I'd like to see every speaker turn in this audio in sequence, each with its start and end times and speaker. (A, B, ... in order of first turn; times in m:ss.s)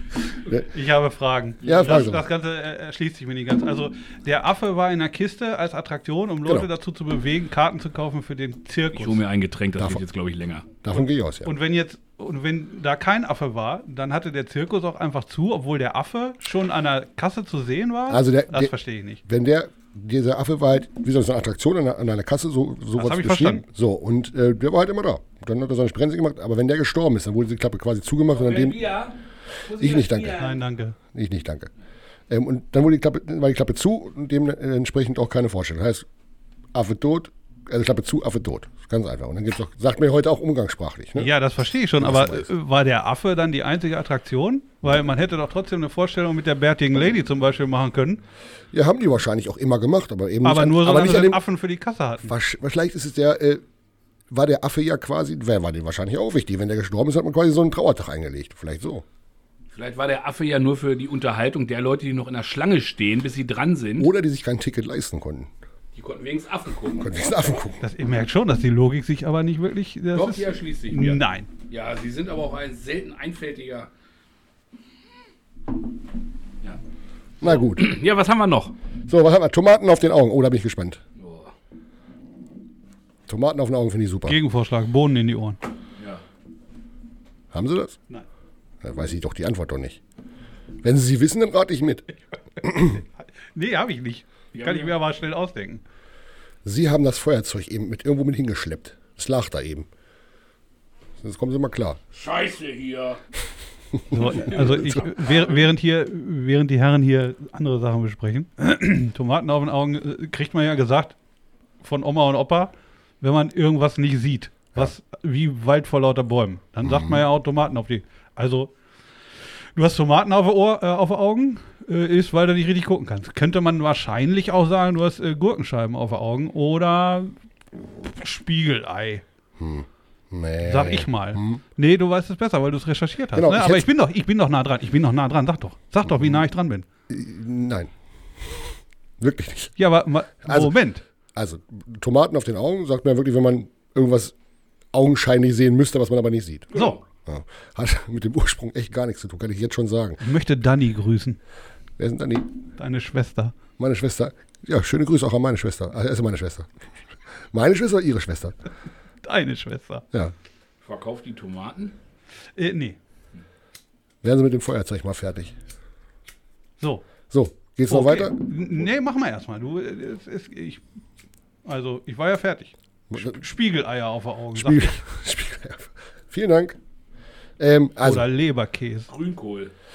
0:00.6-0:09.2 A
0:01.6-0:02.1 B
0:01.6-0:02.2 C
0:08.9-0:10.7 B
0:10.8-0:11.5 C
0:11.4-0:19.2 A
0:18.1-0:18.7 C
0:19.2-0:28.8 C
0:23.0-0:23.6 A
0:28.3-0:30.6 B
0:29.7-0:30.4 C
0:30.4-0:31.0 A
0:31.1-0:31.7 C
0:32.3-0:36.1 C
0:36.7-0:41.3 C
0:41.2-0:48.2 A
0:42.0-0:42.5 C
0:48.7-0:51.4 C
0:50.4-0:52.3 A
0:52.2-0:53.6 C
0:54.3-0:59.0 C
0:59.7-1:04.1 B
1:04.0-1:05.5 C
1:05.9-1:07.2 B
1:07.0-1:07.8 C
1:07.8-1:11.5 A
1:10.1-1:13.9 B
1:17.4-1:17.9 C
1:17.4-1:18.7 B
1:19.1-1:21.0 C
1:21.2-1:21.5 B
1:23.3-1:24.4 C
1:24.3-1:25.6 A
1:26.0-1:26.2 B
1:27.5-1:28.0 C
1:28.8-1:30.0 C
1:30.8-1:32.0 C
1:32.6-1:33.0 C
1:32.7-1:35.8 A
1:34.5-1:34.9 B
1:36.6-1:39.9 C
1:41.2-1:42.0 C
1:42.1-1:43.2 B
1:43.9-1:45.0 C
1:44.1-1:51.1 A
1:44.3-1:45.6 B
1:51.8-1:58.7 A
1:56.8-1:57.2 C
1:59.7-2:09.2 A
2:09.6-2:11.6 C
2:10.6-2:16.8 A
2:13.3-2:13.9 C
2:16.1-2:16.4 C
2:17.1-2:19.7 C
2:19.8-2:21.0 A
2:20.4-2:20.7 C
2:21.3-2:24.3 C
2:24.9-2:26.7 C
2:26.7-2:27.0 B
2:27.2-2:30.2 C
2:30.2-2:31.4 A
2:32.0-2:32.5 C
2:32.8-2:33.5 A
2:33.8-2:36.7 C
2:37.5-2:38.6 C
2:39.2-2:40.0 A
2:40.8-2:41.9 B
2:42.6-2:43.0 A
2:44.2-2:45.5 C
2:47.3-2:48.4 C
2:47.9-2:50.8 A
2:51.6-2:55.0 A
2:53.1-2:53.4 C
2:54.5-2:56.8 C
2:57.6-2:58.2 C
2:58.0-2:59.1 A
2:59.1-2:59.7 B